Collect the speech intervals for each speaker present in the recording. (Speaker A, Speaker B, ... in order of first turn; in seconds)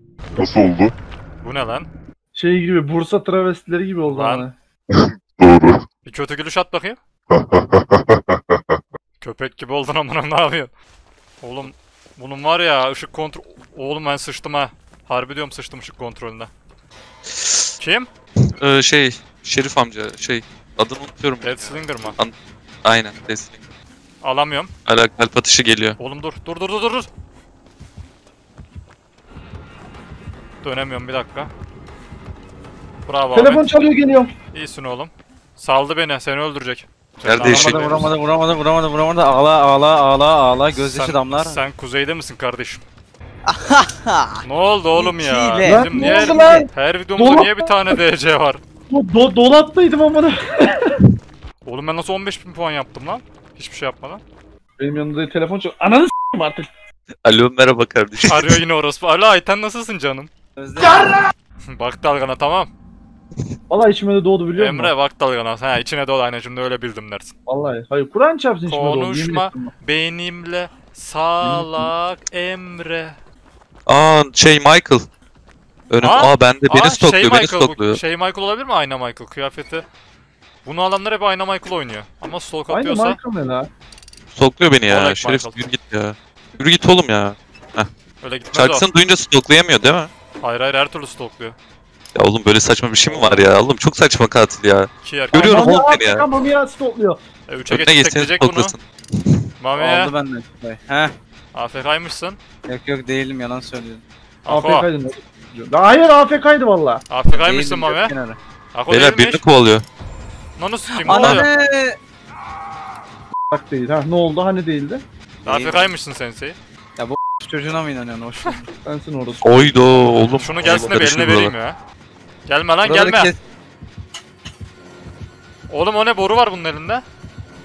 Speaker A: 0.4-0.9, 5.0-5.8, 7.3-8.8
Speaker B: 1.4-1.9, 4.1-4.5, 6.0-7.0, 9.2-10.7, 11.4-16.5, 17.8-18.1, 21.4-22.2, 24.2-24.7, 26.0-27.1, 30.6-31.5, 33.0-33.6, 34.5-38.1, 40.8-42.8, 44.4-48.6, 51.7-54.2, 58.2-60.3, 61.7-62.7, 64.5-67.3, 68.7-73.2, 76.0-79.9, 80.7-83.2, 84.9-85.7, 88.2-88.9, 90.4-91.6, 95.0-95.7, 97.5-98.8, 99.6-100.1, 101.5-102.4, 104.5-104.9, 107.1-108.2, 108.7-109.4, 110.6-111.5, 115.5-116.6, 120.4-121.8, 122.5-123.3, 125.7-127.0
Speaker C: 2.4-4.5, 33.3-34.3, 45.6-48.0, 48.9-51.0, 54.8-56.7, 63.7-64.9, 67.5-69.7, 71.4-71.9, 82.7-83.7, 95.3-97.2, 104.5-107.0, 113.5-115.0, 118.8-120.9
Speaker D: 17.3-17.7, 18.6-23.6, 24.9-26.0, 37.3-37.9, 57.2-58.6, 73.9-75.1, 75.9-78.0, 84.3-87.9, 88.5-90.1, 92.2-96.3, 97.7-99.5, 108.9-109.8, 111.2-111.5, 119.4-121.5
Speaker E: 37.4-41.6, 43.5-46.7, 60.6-61.1, 93.1-93.5, 99.8-101.1, 102.7-104.0, 107.3-108.4, 111.0-112.0, 115.4-115.9, 117.0-118.7, 122.8-123.4